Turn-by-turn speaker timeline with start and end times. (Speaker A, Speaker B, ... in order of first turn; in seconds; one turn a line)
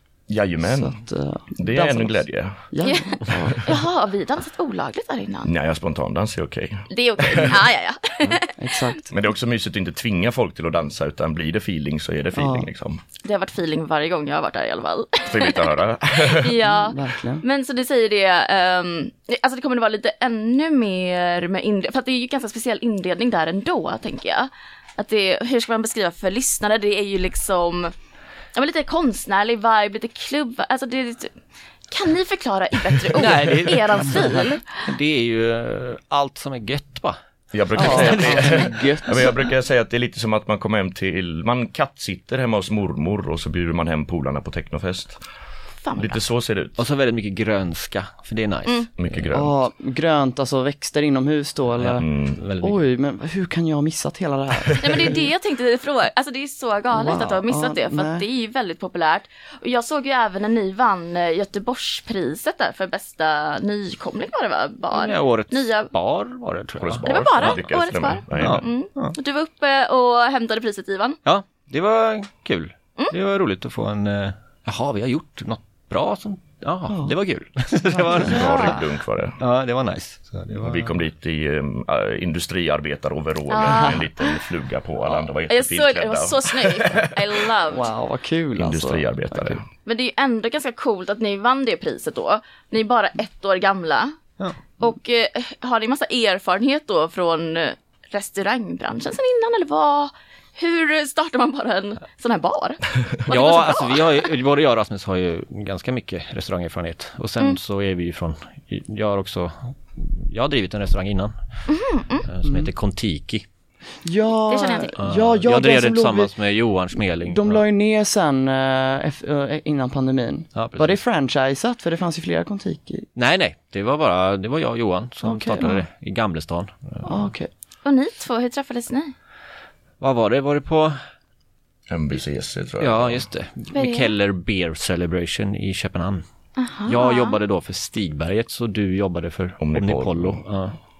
Speaker A: 0.3-1.0
Speaker B: 0.6-3.7
Speaker A: 1.6-2.6
Speaker C: 2.8-5.5
Speaker A: 5.5-7.7
Speaker C: 6.9-8.6
Speaker B: 8.6-9.0
Speaker A: 9.1-13.0
Speaker B: 12.4-12.7
Speaker C: 13.2-27.9
Speaker A: 15.3-16.6
Speaker B: 16.7-17.4
Speaker C: 28.5-31.3
Speaker C: 31.9-34.8
Speaker D: 33.1-37.2
Speaker A: 37.5-45.2
Speaker D: 37.7-39.2
Speaker B: 37.8-39.4
Speaker C: 45.8-46.2
Speaker A: 46.0-46.8
Speaker D: 46.8-49.2
Speaker A: 49.0-49.6
Speaker B: 49.3-52.1
Speaker D: 51.8-52.8
Speaker A: 52.0-52.4
Speaker B: 52.6-55.3
Speaker C: 54.8-65.9
Speaker B: 56.9-58.3
Speaker D: 64.9-67.6
Speaker A: 66.8-68.7
Speaker C: 67.0-71.2
Speaker D: 68.4-69.2
Speaker D: 71.2-78.9
Speaker B: 77.9-78.5
Speaker C: 78.2-78.8
Speaker A: 78.3-79.4
Speaker D: 79.4-81.0
Speaker A: 80.6-87.1
Speaker C: 83.5-84.4
Speaker B: 83.6-84.0
Speaker C: 85.1-87.9
Speaker B: 87.7-89.6
Speaker A: 88.6-89.7
Speaker C: 89.8-94.2
Speaker C: 94.8-104.2
Speaker D: 103.3-111.3
Speaker C: 111.7-112.3
Speaker D: 112.3-113.5
Speaker B: 112.4-112.7
Speaker B: 114.0-116.4
Speaker C: 114.5-115.0
Speaker D: 115.0-117.6
Speaker B: 117.2-123.1
Speaker D: 120.5-121.0
Speaker D: 123.2-127.2
Speaker B: 125.2-125.8
Speaker B: 127.0-127.5
Speaker C: 127.8-129.1
Speaker D: 130.0-131.0
Speaker A: 131.9-133.3
Speaker D: 132.8-136.2
Speaker C: 133.7-134.2
Speaker C: 136.6-137.4
Speaker D: 136.9-140.8
Speaker A: 139.6-140.4